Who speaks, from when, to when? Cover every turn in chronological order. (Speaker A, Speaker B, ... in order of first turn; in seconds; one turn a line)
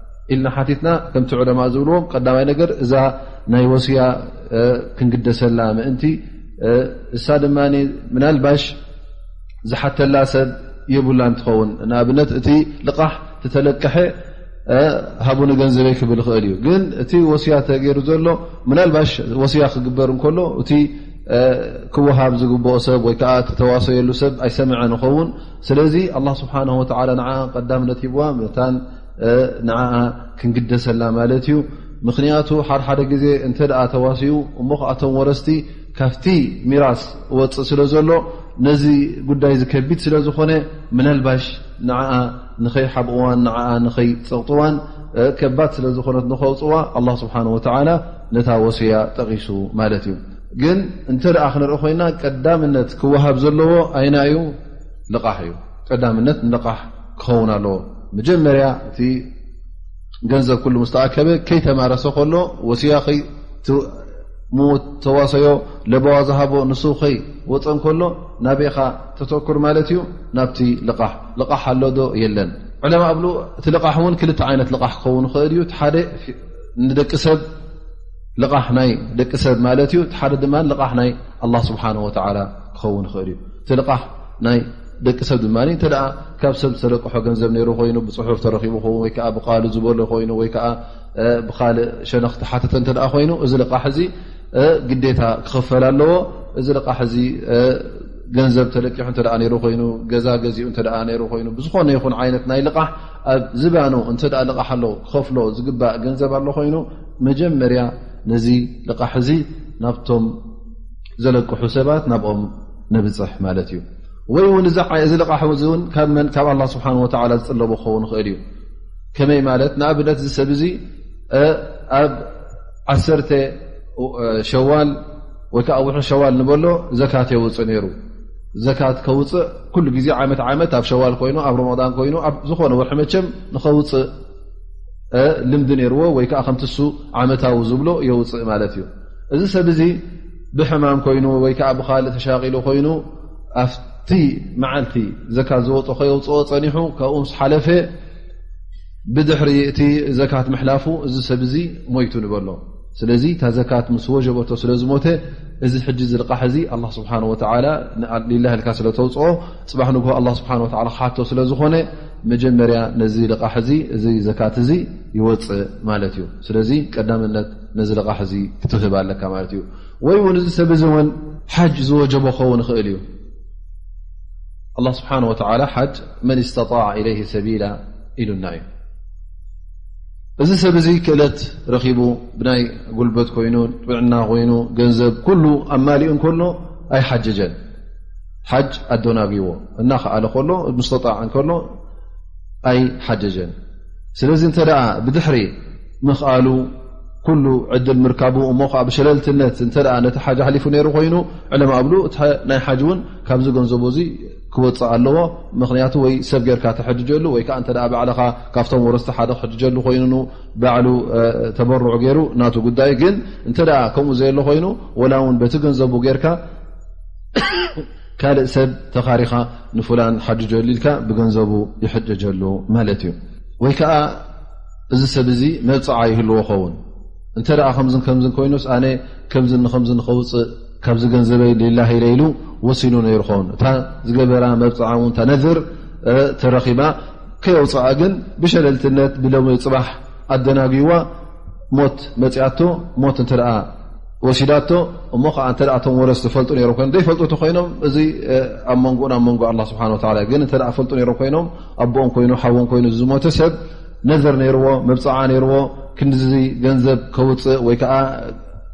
Speaker A: 0.3-8.8
Speaker A: 9.7-14.1
Speaker A: 14.7-54.5
Speaker A: 55.1-59.2
Speaker A: 60.3-64.0
Speaker A: 64.5-77.4
Speaker A: 78.4-110.4
Speaker A: 111.2-118.4
Speaker A: 119.2-120.8
Speaker A: 121.3-122.2
Speaker A: 122.9-125.0
Speaker A: 125.5-127.9
Speaker A: 128.6-134.1
Speaker A: 135.1-140.0
Speaker A: 140.5-143.0
Speaker A: 143.6-147.9
Speaker A: 149.1-173.0
Speaker A: 174.8-178.7
Speaker A: 180.4-187.6
Speaker A: 188.5-191.7
Speaker A: 192.7-193.5
Speaker A: 194.2-196.7
Speaker A: 197.2-216.4
Speaker A: 217.4-224.2
Speaker A: 224.9-226.8
Speaker A: 227.4-241.1
Speaker A: 241.7-243.7
Speaker A: 244.2-258.4